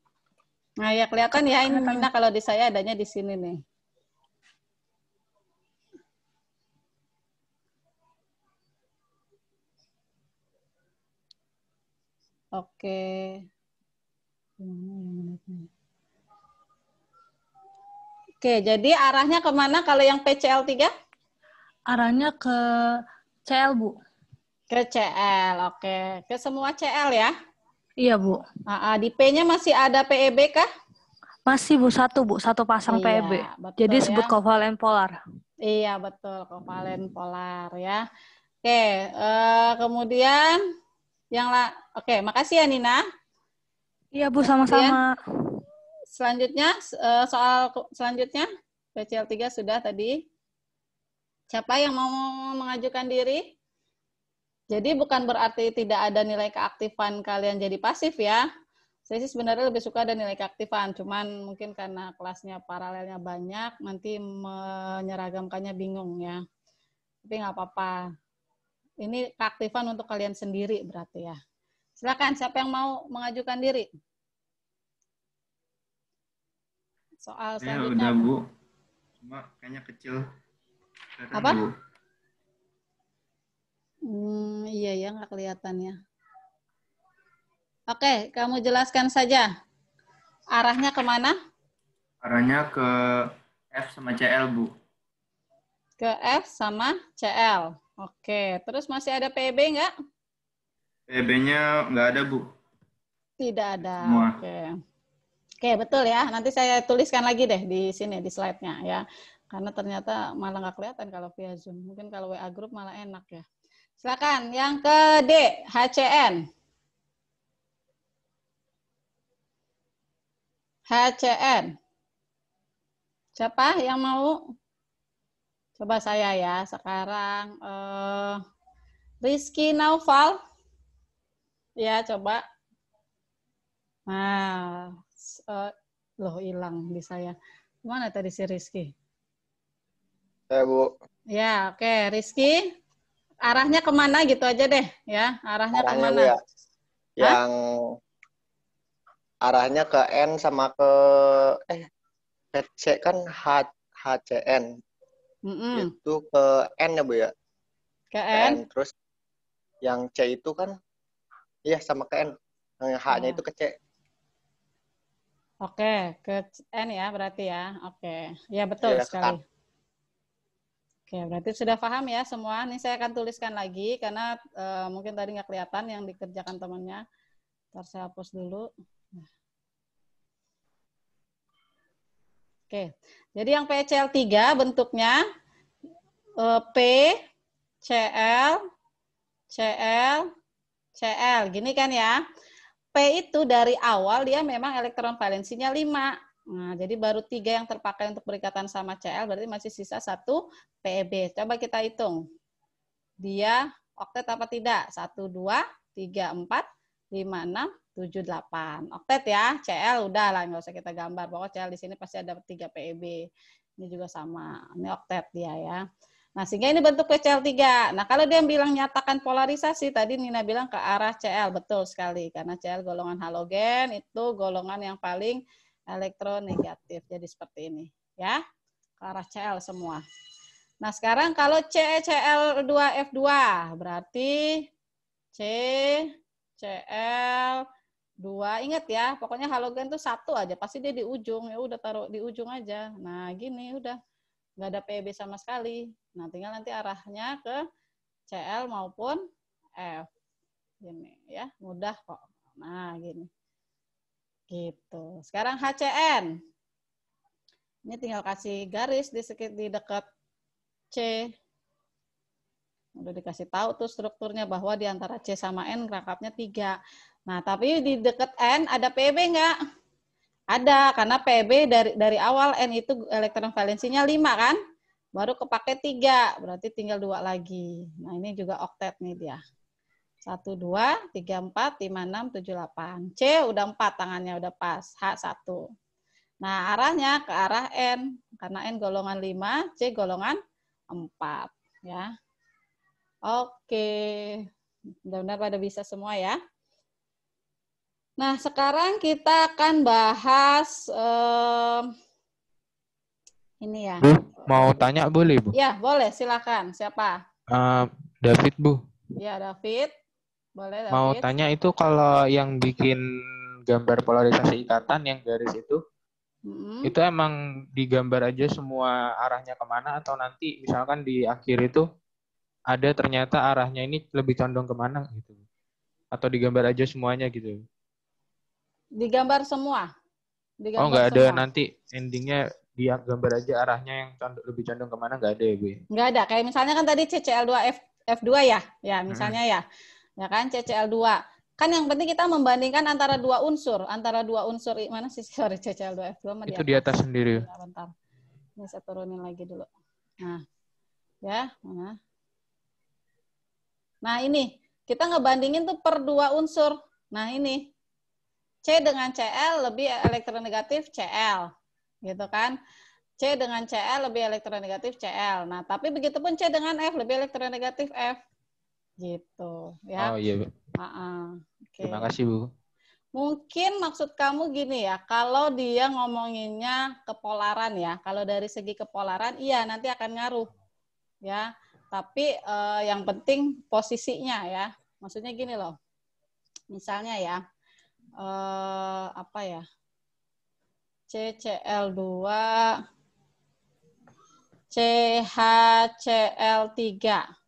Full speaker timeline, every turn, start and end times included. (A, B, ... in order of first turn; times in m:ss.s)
0:00.8-0:03.6 A
0:01.7-0:02.1 B
0:12.6-0:13.4 A
0:14.6-0:15.7 A
0:18.4-0:20.9 A
0:21.9-0:22.9 B
0:23.4-0:24.0 B
0:24.7-0:27.3 A
0:28.0-0:28.4 B
0:28.7-0:30.6 A
0:31.5-0:35.1 B
0:32.9-0:34.3 A
0:35.6-0:38.0 A
0:38.6-0:40.6 A
0:41.3-0:43.0 A
0:44.1-0:45.1 B
0:44.6-0:45.0 A
0:46.1-0:50.1 A
0:51.5-0:53.4 A
0:54.7-0:58.4 A
0:59.1-1:06.4 A
1:07.2-1:08.0 A
1:09.0-1:11.4 A
1:12.0-1:13.9 A
1:17.3-1:18.2 A
1:17.6-1:18.4 C
1:19.2-1:20.2 C
1:21.2-1:21.7 C
1:21.3-1:21.6 A
1:24.1-1:26.0 A
1:27.9-1:29.5 A
1:30.5-1:31.3 A
1:32.2-1:34.7 C
1:36.0-1:39.9 A
1:41.1-1:42.4 C
1:43.4-1:44.7 A
1:44.0-1:44.4 C
1:45.6-1:53.4 A
1:54.0-1:56.4 A
2:00.9-2:01.7 A
2:03.4-2:04.4 A
2:05.8-2:08.4 A
2:09.2-2:10.4 A
2:11.8-2:12.4 A
2:14.1-2:15.7 A
2:16.2-2:18.9 A
2:20.5-2:20.9 D
2:21.3-2:22.6 A
2:23.5-2:26.3 A
2:25.7-2:26.3 D
2:27.2-2:27.9 D
2:29.4-2:31.8 D
2:32.5-2:34.6 D
2:35.5-2:35.9 A
2:35.7-2:37.3 D
2:38.1-2:38.6 A
2:38.3-2:38.9 D
2:39.8-2:40.7 D
2:41.7-2:42.3 D
2:42.8-2:43.7 D
2:43.1-2:43.4 A
2:45.6-2:49.4 A
2:48.8-2:49.4 D
2:51.1-2:57.0 A
2:57.7-2:58.7 A
3:02.7-3:05.2 A
3:06.4-3:07.1 A
3:07.8-3:08.6 A
3:09.5-3:10.3 A
3:11.0-3:12.2 A
3:12.9-3:22.2 A
3:23.2-3:33.2 A
3:33.8-3:35.8 A
3:36.4-3:45.4 A
3:45.9-3:48.4 A
3:49.0-3:50.0 A
3:50.8-3:54.6 A
3:55.4-3:56.1 A
3:56.6-3:57.6 A
3:58.2-4:04.0 A
4:04.6-4:07.6 A
4:08.3-4:09.2 A
4:09.8-4:10.1 A
4:10.8-4:13.3 A
4:14.5-4:16.3 A
4:17.9-4:20.0 A
4:20.9-4:21.3 A
4:23.0-4:26.8 A
4:27.3-4:29.5 A
4:30.5-4:34.6 A
4:35.2-4:39.4 A
4:40.3-4:45.6 A
4:46.4-4:50.4 A
4:50.9-4:52.1 A
4:53.3-4:54.4 A
4:55.1-4:56.4 A
4:58.2-5:01.9 A
5:03.6-5:04.8 A
5:04.0-5:05.5 E
5:05.5-5:07.2 A
5:07.5-5:08.8 E
5:09.2-5:09.9 A
5:10.6-5:11.3 A
5:10.9-5:13.0 E
5:13.7-5:15.8 E
5:16.5-5:16.9 A
5:16.9-5:21.9 E
5:22.7-5:25.4 E
5:26.1-5:27.6 E
5:29.0-5:29.9 A
5:30.6-5:31.4 A
5:30.8-5:35.8 E
5:35.9-5:39.6 A
5:39.1-5:39.4 E
5:40.2-5:47.9 A
5:46.5-5:47.4 E
5:48.6-5:49.7 A
5:51.2-5:52.0 A
5:54.0-5:57.6 A
5:58.7-6:01.5 A
6:02.1-6:02.5 A
6:03.2-6:08.2 A
6:09.0-6:10.1 A
6:10.0-6:10.5 E
6:10.8-6:12.1 A
6:11.8-6:12.5 E
6:13.2-6:20.5 A
6:21.3-6:25.7 A
6:26.7-6:27.4 A
6:28.2-6:29.6 A
6:31.1-6:32.8 A
6:34.7-6:37.2 A